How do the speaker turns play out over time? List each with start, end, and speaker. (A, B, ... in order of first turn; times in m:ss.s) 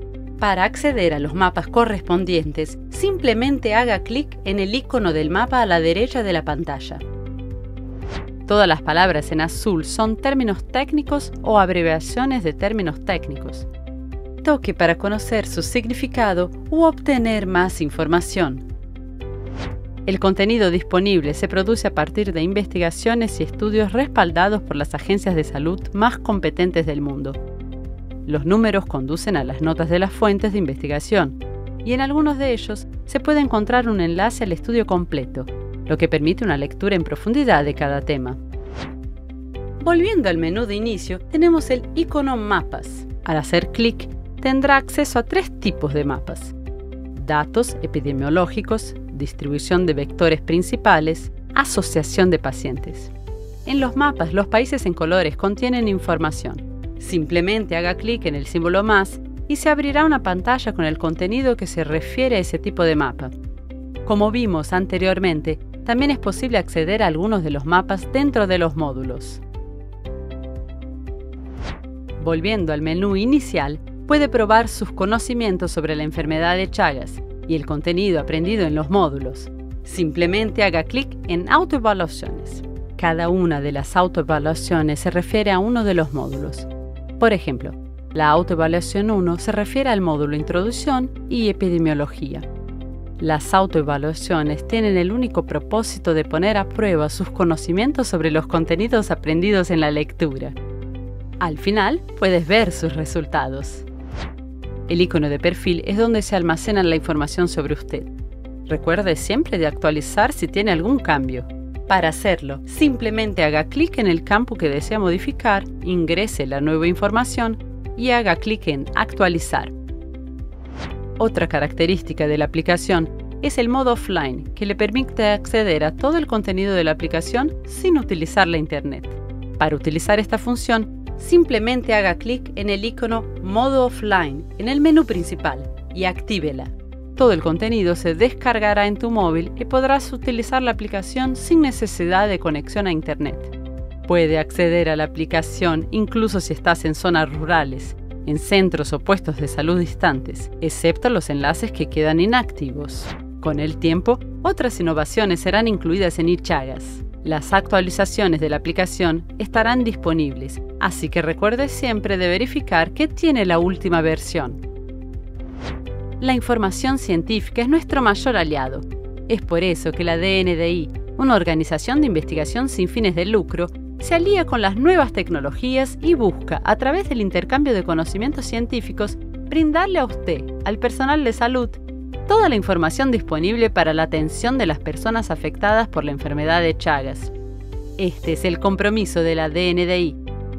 0:00.4-0:07.0 A
0:08.4-0:13.7 A
0:14.4-0:18.6 A
0:20.1-0:27.4 A
0:28.2-0:38.4 A
0:39.8-0:46.5 A
0:47.1-0:53.1 A
0:53.6-1:03.3 A
1:04.0-1:09.4 A
1:12.2-1:32.5 A
1:33.2-1:40.6 A
1:41.4-1:43.8 A
1:44.9-1:48.1 A
1:48.7-1:59.7 A
2:01.2-2:23.5 A
2:24.0-2:44.6 A
2:46.2-3:07.3 A
3:08.0-3:10.2 A